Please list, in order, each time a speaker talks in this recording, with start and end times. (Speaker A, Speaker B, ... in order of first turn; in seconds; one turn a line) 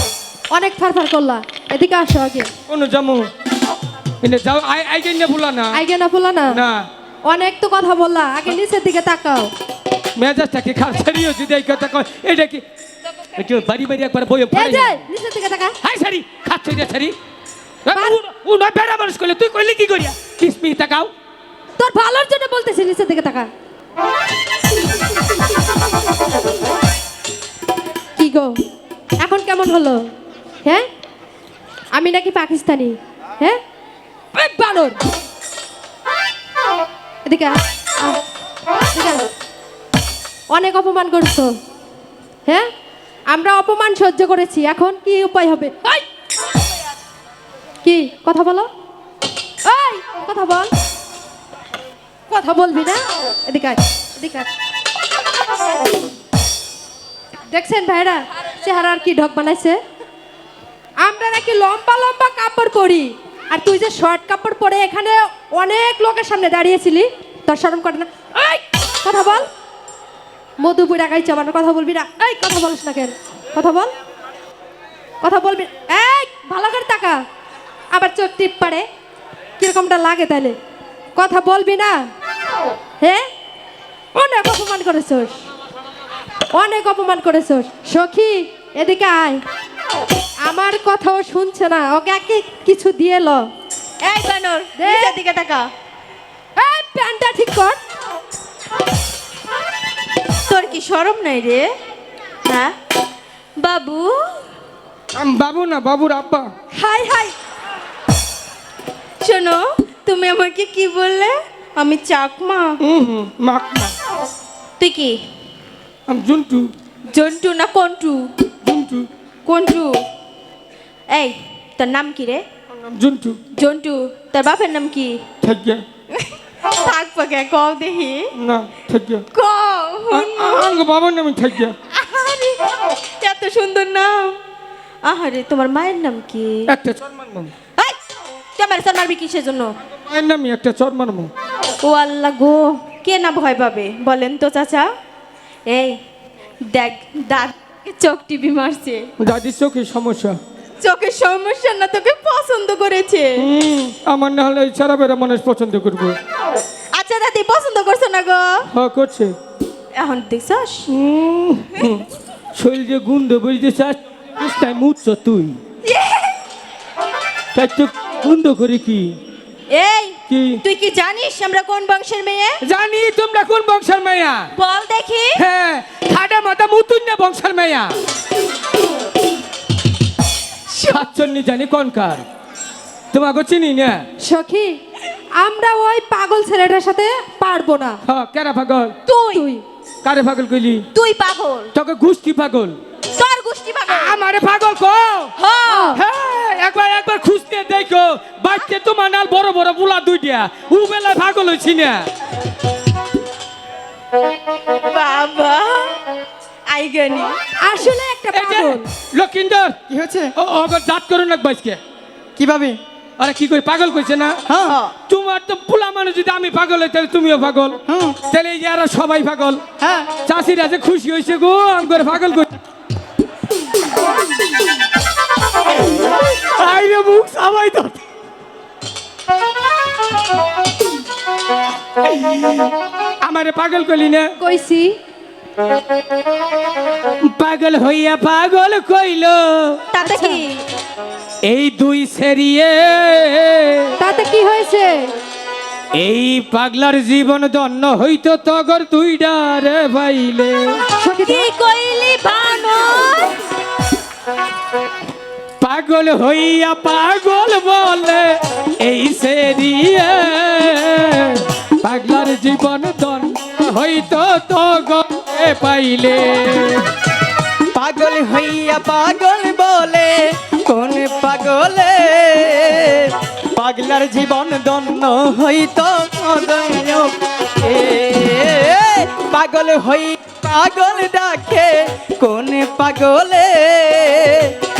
Speaker A: 0.5-2.5
Speaker B: 2.7-3.3
Speaker B: 4.2-5.8
Speaker A: 5.7-6.6
Speaker B: 6.5-6.9
Speaker A: 7.3-9.5
Speaker B: 10.2-12.6
Speaker B: 13.4-15.0
Speaker A: 14.5-15.8
Speaker B: 15.8-17.2
Speaker B: 17.9-21.1
Speaker A: 17.9-18.2
Speaker A: 21.8-23.5
Speaker A: 28.2-28.6
Speaker A: 29.2-30.1
Speaker A: 31.9-33.6
Speaker A: 34.3-35.0
Speaker A: 37.3-38.2
Speaker A: 38.9-39.3
Speaker A: 40.5-41.5
Speaker A: 43.3-46.0
Speaker A: 47.8-48.7
Speaker A: 49.6-50.7
Speaker A: 52.3-54.5
Speaker A: 57.5-59.8
Speaker A: 61.0-69.5
Speaker A: 70.6-73.9
Speaker A: 75.2-77.2
Speaker A: 77.9-78.9
Speaker A: 79.6-80.6
Speaker A: 81.2-82.0
Speaker A: 83.0-83.3
Speaker A: 84.2-85.4
Speaker A: 86.5-89.4
Speaker A: 90.5-93.5
Speaker C: 94.0-95.7
Speaker A: 94.8-95.2
Speaker A: 96.6-97.8
Speaker C: 100.5-101.7
Speaker C: 102.5-102.8
Speaker C: 103.6-104.4
Speaker B: 105.2-106.5
Speaker C: 106.7-107.3
Speaker C: 109.2-112.8
Speaker B: 112.8-113.9
Speaker C: 114.8-115.2
Speaker B: 116.1-116.7
Speaker C: 117.1-118.3
Speaker B: 118.6-119.1
Speaker C: 119.5-120.0
Speaker C: 121.1-122.5
Speaker B: 122.8-123.4
Speaker C: 123.5-125.2
Speaker B: 125.4-125.8
Speaker C: 126.1-128.3
Speaker B: 128.3-129.2
Speaker C: 129.3-130.7
Speaker B: 130.1-131.8
Speaker C: 131.9-132.6
Speaker C: 133.2-134.4
Speaker C: 135.0-136.7
Speaker B: 136.7-137.5
Speaker C: 138.6-139.8
Speaker B: 140.1-141.3
Speaker C: 141.8-144.9
Speaker C: 145.7-146.0
Speaker C: 146.7-149.1
Speaker B: 149.2-150.4
Speaker C: 150.8-153.5
Speaker B: 153.4-156.2
Speaker C: 156.9-158.7
Speaker B: 158.7-159.3
Speaker C: 159.9-160.9
Speaker B: 160.9-165.6
Speaker C: 165.8-166.3
Speaker B: 167.5-169.2
Speaker C: 169.7-172.6
Speaker B: 170.3-170.6
Speaker B: 172.6-174.5
Speaker C: 174.6-175.4
Speaker B: 175.4-178.0
Speaker B: 180.8-182.2
Speaker B: 183.1-184.1
Speaker A: 184.2-184.8
Speaker A: 185.4-188.0
Speaker B: 188.1-188.9
Speaker C: 189.1-189.5
Speaker A: 189.3-189.6
Speaker B: 190.0-190.8
Speaker C: 190.9-191.7
Speaker B: 191.7-192.8
Speaker C: 193.2-194.2
Speaker B: 193.9-195.3
Speaker C: 195.4-196.0
Speaker B: 195.9-202.1
Speaker C: 204.8-206.0
Speaker C: 206.7-207.4
Speaker A: 207.6-208.9
Speaker B: 208.3-209.8
Speaker D: 209.9-210.3
Speaker B: 210.4-211.8
Speaker D: 212.4-212.8
Speaker B: 213.2-214.4
Speaker D: 214.5-214.8
Speaker B: 215.1-217.8
Speaker D: 217.9-218.2
Speaker B: 218.3-219.6
Speaker D: 219.8-220.1
Speaker B: 220.3-222.5
Speaker B: 225.9-228.1
Speaker B: 232.2-232.7
Speaker B: 233.2-234.3
Speaker A: 234.4-234.9
Speaker B: 237.2-239.8
Speaker C: 239.9-240.6
Speaker A: 240.0-240.4
Speaker B: 241.4-243.9
Speaker A: 244.0-244.9
Speaker B: 245.9-250.8
Speaker A: 251.0-251.5
Speaker C: 251.3-253.4
Speaker B: 255.6-266.9
Speaker D: 267.7-284.5